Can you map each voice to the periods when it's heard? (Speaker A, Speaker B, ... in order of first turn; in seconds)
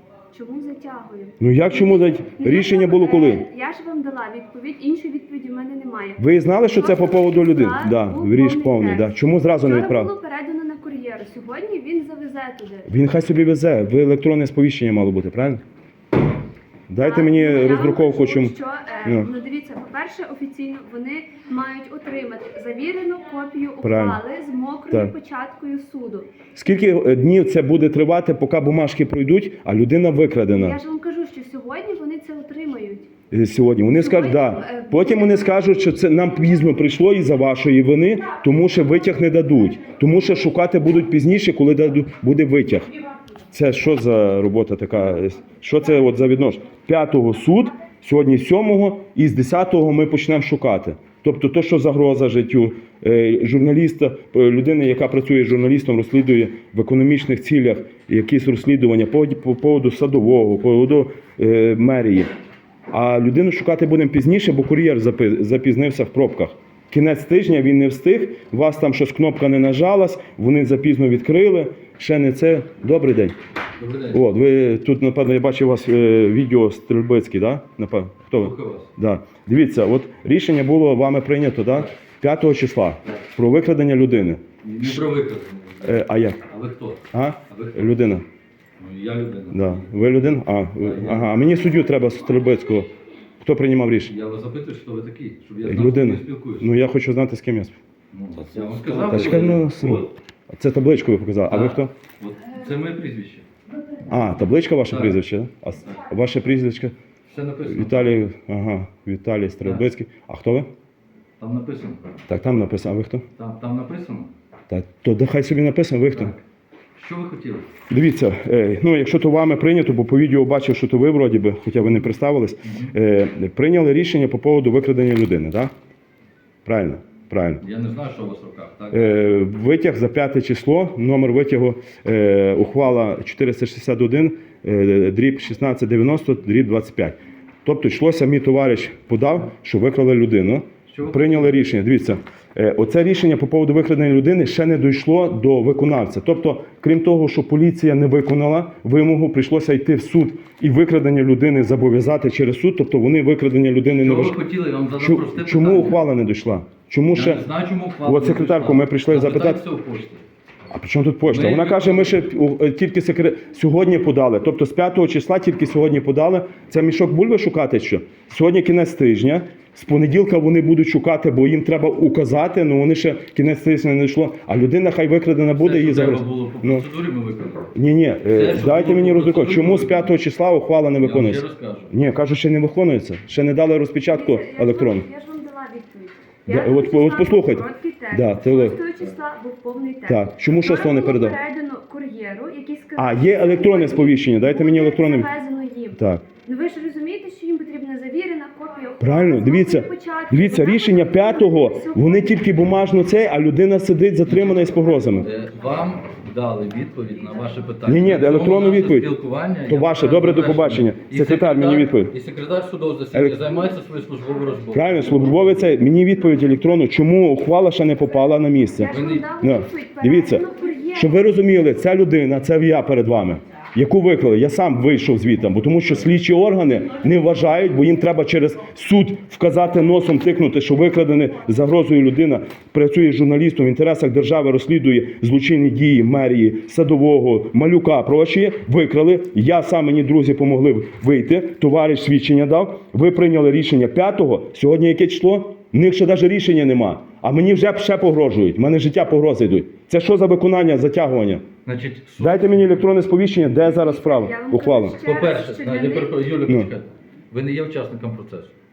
Speaker A: 0.3-6.2, 6.7-12.9, 17.0-26.3, 30.5-33.1, 33.9-35.6, 184.1-202.5, 218.8-221.3, 253.7-256.2
Speaker B: 1.4-3.4, 6.2-10.1, 12.9-15.6, 16.9-19.3, 23.8-24.2, 26.5-30.8, 33.3-42.9, 43.5-62.3, 62.9-73.3, 74.1-85.0, 85.8-86.4, 87.1-88.2, 89.5-92.9, 93.4-94.1, 95.6-97.8, 99.0-101.9, 104.1-106.9, 107.7-110.7, 112.3-113.2, 114.7-116.3, 117.9-125.7, 126.6-127.6, 128.9-154.3, 155.0-157.4, 158.0-159.6, 160.7-176.8, 177.7-185.0, 186.5-188.8, 190.1-191.4, 192.9-195.3, 195.9-196.2, 199.0-205.3, 207.8-209.1, 209.7-212.1, 213.1-213.4, 214.7-251.4, 252.2-255.0, 256.4-256.7
Speaker C: 73.8-74.2, 78.4-78.9, 84.6-87.9, 88.8-89.9, 90.8-91.3, 94.1-96.7, 98.1-100.1, 101.5-103.4, 104.9-105.2, 107.2-108.2, 109.6-109.9, 111.4-112.2, 113.4-114.3, 116.1-116.4, 117.0-117.7, 122.6-122.9, 127.6-129.5, 140.9-141.7, 153.9-156.0, 157.1-160.2, 161.2-162.2, 175.5-177.7, 178.3-180.1, 181.0-181.9, 204.2-215.7, 218.8-219.3, 251.6-252.9, 255.0-258.5